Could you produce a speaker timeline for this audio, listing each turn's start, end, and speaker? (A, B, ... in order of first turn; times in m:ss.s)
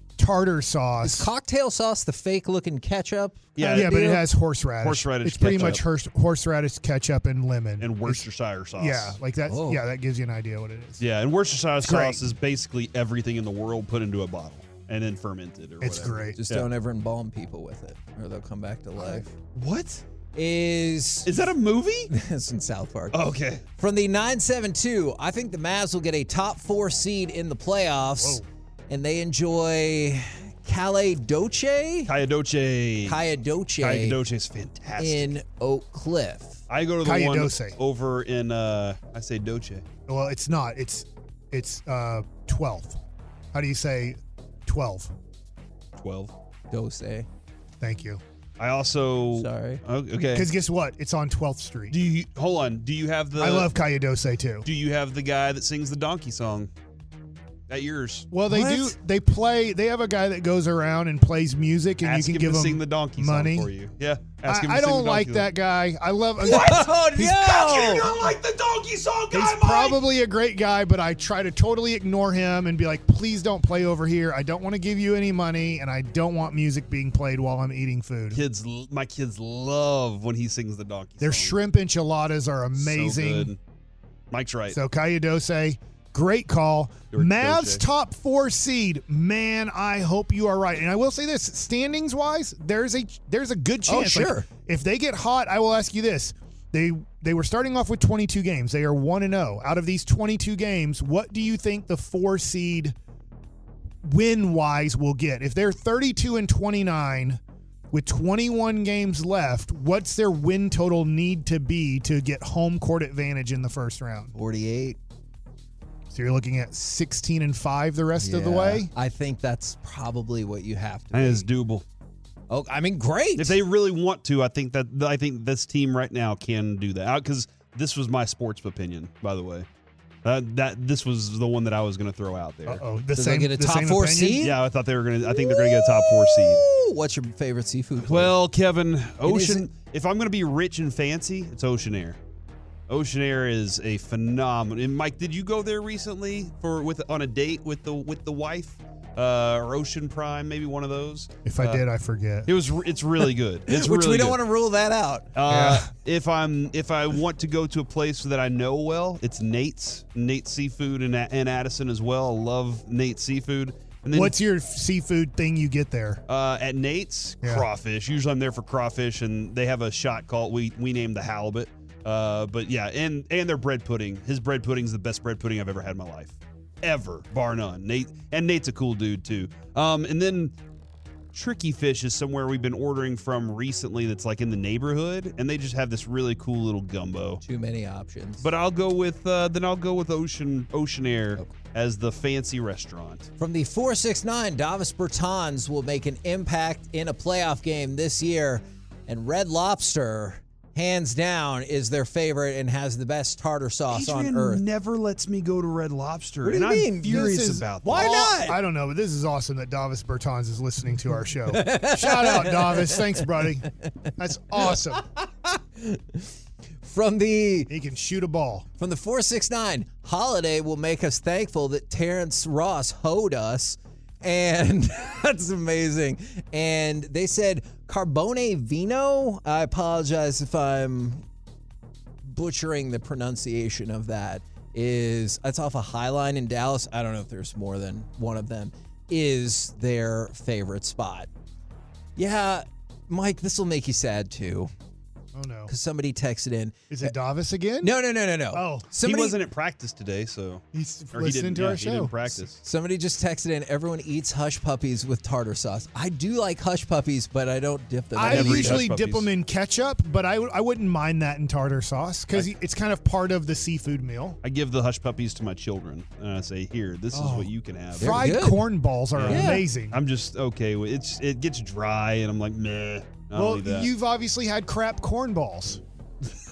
0:00.2-0:01.3 A
0:01.0-0:04.2 B
0:03.6-0:04.2 C
0:03.6-0:08.2 A
0:04.8-0:05.8 C
0:05.5-0:05.8 B
0:07.8-0:09.2 C
0:08.8-0:11.0 A
0:09.5-0:09.8 B
0:11.0-0:16.7 C
0:11.8-0:12.2 A
0:15.8-0:16.4 A
0:16.0-0:19.3 B
0:19.1-0:20.0 C
0:20.3-0:21.3 B
0:21.2-0:22.1 C
0:22.1-0:23.2 B
0:23.1-0:23.6 C
0:23.8-0:32.1 B
0:28.2-0:28.4 A
0:32.1-0:33.2 C
0:33.0-0:34.2 B
0:33.8-0:35.3 C
0:35.0-0:36.6 B
0:36.7-0:39.8 C
0:37.0-0:37.8 A
0:40.1-0:43.0 A
0:43.5-0:45.1 A
0:46.0-0:46.3 C
0:46.7-0:47.3 B
0:47.8-0:48.2 A
0:48.6-0:50.5 C
0:49.3-0:49.8 B
0:50.3-0:52.0 A
0:51.9-0:53.7 C
0:53.4-0:54.6 A
0:54.6-0:56.7 C
0:57.7-0:58.3 C
0:58.3-1:03.7 A
0:58.5-0:58.9 B
1:02.0-1:05.5 C
1:04.4-1:07.6 A
1:06.4-1:08.3 B
1:06.4-1:10.0 C
1:09.3-1:18.4 A
1:18.3-1:21.6 C
1:21.2-1:23.5 A
1:22.7-1:23.6 C
1:24.3-1:24.8 C
1:24.7-1:43.0 A
1:27.1-1:27.8 C
1:33.9-1:34.5 B
1:44.0-1:47.4 A
1:47.9-1:54.3 A
1:54.3-1:55.0 B
1:56.1-1:58.9 A
1:58.2-2:01.5 B
2:01.1-2:01.8 C
2:02.5-2:03.6 B
2:03.4-2:09.7 C
2:10.2-2:12.8 C
2:12.7-2:14.5 A
2:13.2-2:14.6 B
2:14.4-2:16.6 C
2:15.2-2:18.4 B
2:18.0-2:22.2 C
2:19.2-2:19.7 B
2:22.9-2:31.8 C
2:31.4-2:32.5 A
2:32.4-2:34.4 C
2:33.7-2:35.3 B
2:35.3-2:44.4 C
2:35.5-2:35.9 A
2:44.1-2:46.2 A
2:46.3-3:00.5 C
3:01.3-3:07.4 C
3:07.4-3:08.5 B
3:08.4-3:13.3 C
3:13.4-3:24.6 B
3:23.9-3:28.4 C
3:26.4-3:28.6 B
3:27.0-3:35.0 A
3:31.5-3:33.4 B
3:34.6-3:36.3 B
3:36.8-3:37.7 B
3:37.7-3:38.6 A
3:38.8-3:51.2 B
3:52.2-4:01.3 B
4:02.2-4:04.7 B
4:05.3-4:05.7 A
4:05.7-4:07.1 B
4:06.9-4:08.0 A
4:07.8-4:09.4 B
4:08.5-4:08.9 A
4:09.0-4:12.6 C
4:10.7-4:12.1 A
4:12.6-4:18.8 B
4:18.2-4:24.4 A
4:18.2-4:19.3 C
4:24.4-4:28.2 C
4:27.1-4:27.5 A
4:28.0-4:28.7 B
4:28.0-4:30.0 A
4:29.2-4:33.9 C
4:29.3-4:29.6 B
4:33.3-4:35.8 A